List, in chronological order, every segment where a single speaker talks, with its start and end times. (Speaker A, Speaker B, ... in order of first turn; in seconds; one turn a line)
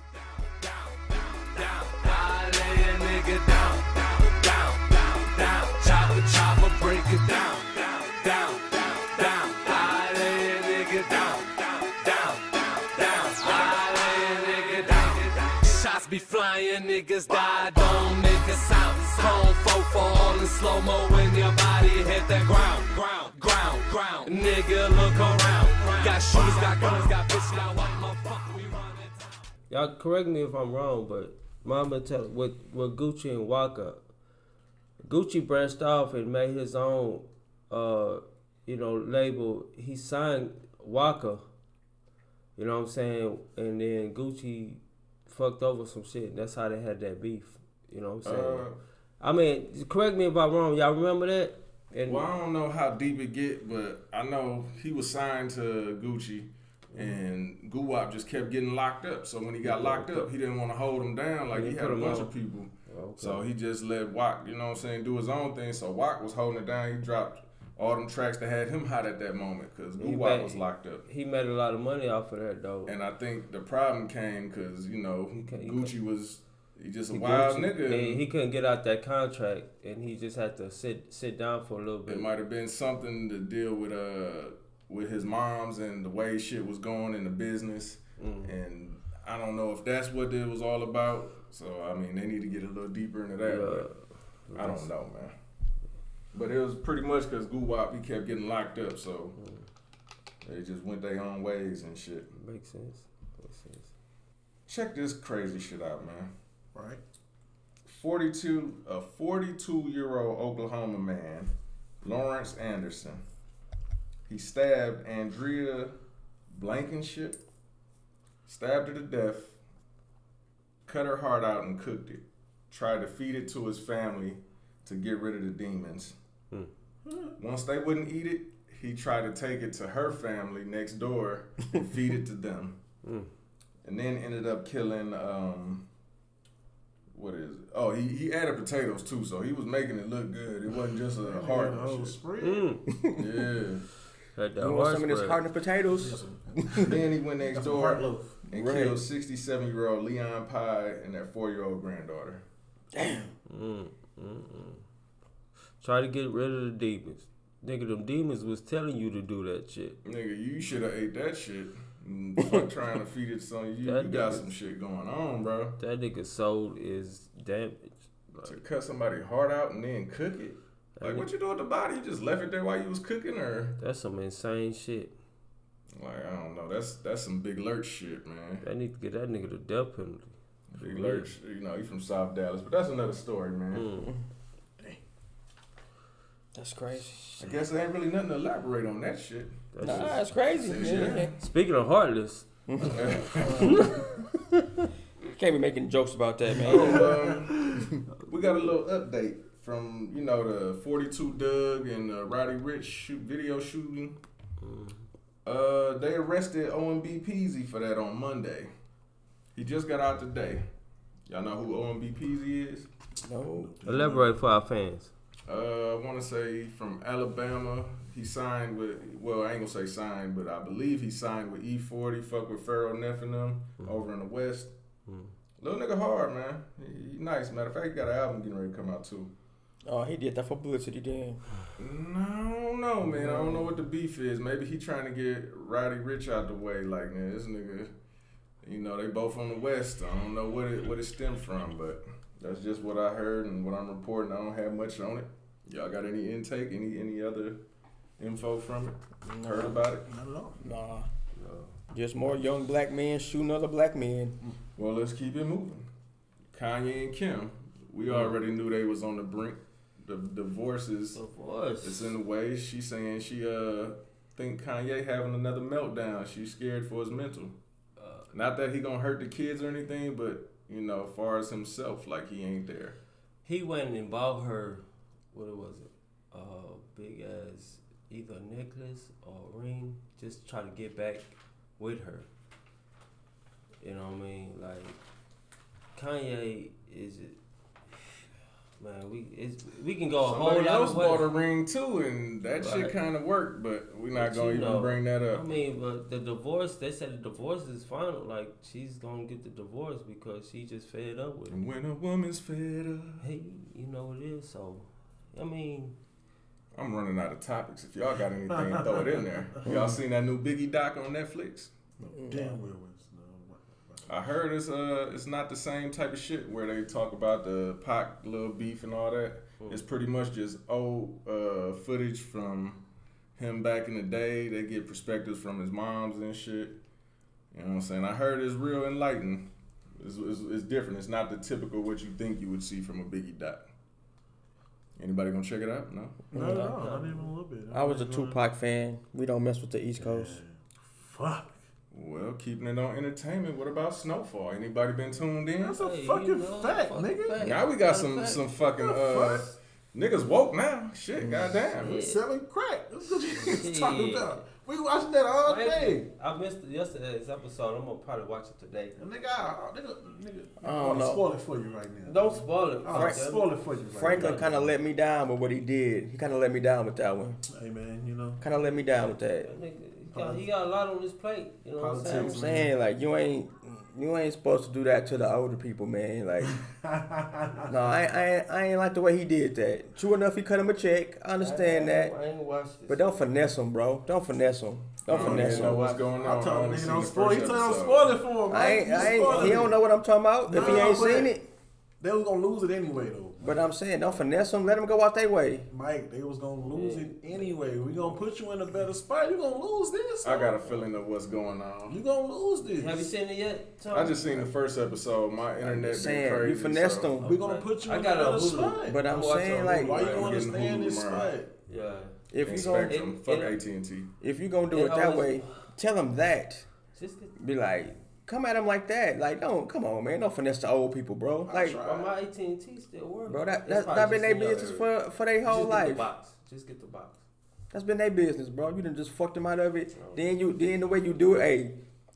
Speaker A: 0.1-29.4
Speaker B: 29.7-34.0
Speaker B: 35.0-41.4
Speaker B: 42.6-48.6
Speaker C: 48.2-48.8
Speaker B: 49.2-52.2
Speaker C: 52.0-71.0
Speaker B: 59.6-60.3
Speaker B: 61.5-62.3
Speaker B: 62.9-63.4
Speaker B: 70.0-72.9
Speaker C: 72.9-78.2
Speaker B: 75.4-75.9
Speaker B: 77.1-82.2
Speaker C: 82.1-93.9
Speaker B: 88.2-88.6
Speaker B: 93.4-94.9
Speaker C: 94.5-95.3
Speaker C: 96.3-99.4
Speaker B: 99.4-99.7
Speaker C: 100.4-102.3
Speaker B: 102.3-103.9
Speaker C: 104.7-106.3
Speaker D: 106.7-107.0
Speaker C: 107.9-113.2
Speaker C: 114.3-116.0
Speaker C: 116.5-117.4
Speaker C: 118.5-119.6
Speaker C: 120.9-126.1
Speaker D: 127.0-127.4
Speaker C: 127.4-132.8
Speaker B: 133.0-133.3
Speaker C: 133.8-135.9
Speaker C: 137.1-142.2
Speaker D: 141.2-142.7
Speaker B: 142.4-142.9
Speaker E: 142.9-143.3
Speaker C: 143.1-143.9
Speaker B: 144.4-145.4
Speaker E: 144.6-146.9
Speaker D: 146.0-148.4
Speaker C: 146.8-152.4
Speaker E: 148.5-149.0
Speaker E: 152.9-153.2
Speaker D: 153.0-153.3
Speaker B: 153.5-154.8
Speaker B: 155.8-160.0
Speaker C: 160.1-165.8
Speaker E: 162.4-162.7
Speaker B: 163.8-164.5
Speaker B: 165.8-168.6
Speaker C: 168.4-173.8
Speaker B: 171.0-171.3
Speaker B: 173.8-175.1
Speaker C: 175.9-178.6
Speaker B: 178.6-181.3
Speaker C: 180.7-183.9
Speaker B: 183.7-184.1
Speaker E: 186.5-187.6
Speaker C: 187.4-191.3
Speaker B: 189.7-190.2
Speaker E: 189.8-191.3
Speaker D: 190.6-191.2
Speaker B: 191.4-193.8
Speaker E: 192.7-194.1
Speaker C: 192.9-193.9
Speaker E: 195.3-197.2
Speaker D: 196.6-197.9
Speaker C: 196.6-204.2
Speaker B: 204.6-205.1
Speaker C: 205.4-208.7
Speaker C: 209.6-210.7
Speaker C: 211.3-212.9
Speaker E: 213.2-213.7
Speaker D: 213.4-214.4
Speaker B: 213.9-215.1
Speaker C: 215.5-224.7
Speaker B: 225.1-225.3
Speaker C: 225.6-229.3
Speaker E: 229.8-231.4
Speaker C: 231.8-237.9
Speaker C: 238.6-247.6
Speaker C: 248.2-250.1
Speaker E: 249.2-249.8
Speaker D: 250.1-250.6
Speaker E: 250.6-251.1
Speaker B: 251.4-251.7
Speaker E: 251.9-254.4
Speaker C: 254.8-255.9
Speaker C: 256.5-261.2
Speaker B: 258.1-258.3
Speaker B: 261.1-262.1
Speaker C: 261.8-267.6
Speaker B: 268.0-268.2
Speaker C: 268.3-273.0
Speaker B: 273.4-282.3
Speaker B: 283.8-285.0
Speaker B: 285.9-287.4
Speaker B: 288.8-291.3
Speaker C: 290.2-295.4
Speaker B: 292.6-292.9
Speaker B: 294.1-301.6
Speaker C: 301.5-303.2
Speaker B: 303.2-305.9
Speaker C: 306.7-311.7
Speaker D: 308.6-309.0
Speaker E: 309.6-309.9
Speaker D: 312.0-314.1
Speaker E: 312.2-312.6
Speaker C: 314.1-322.8
Speaker C: 323.4-326.8
Speaker C: 327.5-333.6
Speaker C: 335.0-336.3
Speaker E: 336.3-336.7
Speaker D: 336.3-338.4
Speaker B: 336.3-337.3
Speaker E: 337.7-340.4
Speaker D: 340.0-341.6
Speaker C: 341.9-345.8
Speaker B: 345.6-348.5
Speaker D: 345.7-347.4
Speaker C: 347.4-352.0
Speaker D: 348.8-349.5
Speaker E: 351.2-351.6
Speaker D: 351.8-356.1
Speaker B: 351.8-352.2
Speaker B: 353.3-354.4
Speaker B: 355.4-358.9
Speaker D: 358.9-364.5
Speaker E: 360.6-361.2
Speaker B: 362.1-364.7
Speaker E: 362.9-363.2
Speaker E: 363.9-367.4
Speaker D: 367.5-368.4
Speaker E: 368.4-369.5
Speaker B: 368.8-372.4
Speaker D: 370.1-370.4
Speaker D: 371.8-372.7
Speaker E: 372.0-376.6
Speaker D: 376.5-377.8
Speaker E: 377.7-382.1
Speaker B: 381.4-383.2
Speaker E: 382.9-385.9
Speaker C: 385.1-388.2
Speaker D: 385.1-389.8
Speaker E: 388.5-391.4
Speaker D: 390.5-391.3
Speaker D: 392.0-393.4
Speaker E: 393.4-395.7
Speaker D: 395.7-400.6
Speaker B: 396.7-398.2
Speaker C: 400.2-402.0
Speaker D: 401.9-403.1
Speaker B: 402.7-404.4
Speaker C: 403.9-407.1
Speaker E: 405.6-407.3
Speaker B: 407.2-410.4
Speaker D: 407.2-411.5
Speaker E: 408.8-410.1
Speaker C: 410.1-411.3
Speaker B: 411.7-413.6
Speaker E: 412.3-413.0
Speaker C: 412.4-414.1
Speaker E: 414.2-416.7
Speaker B: 414.7-415.6
Speaker B: 416.9-417.3
Speaker E: 417.4-421.8
Speaker D: 421.5-422.1
Speaker B: 421.8-424.9
Speaker E: 423.3-426.1
Speaker B: 425.4-427.2
Speaker E: 427.7-431.8
Speaker B: 429.9-430.2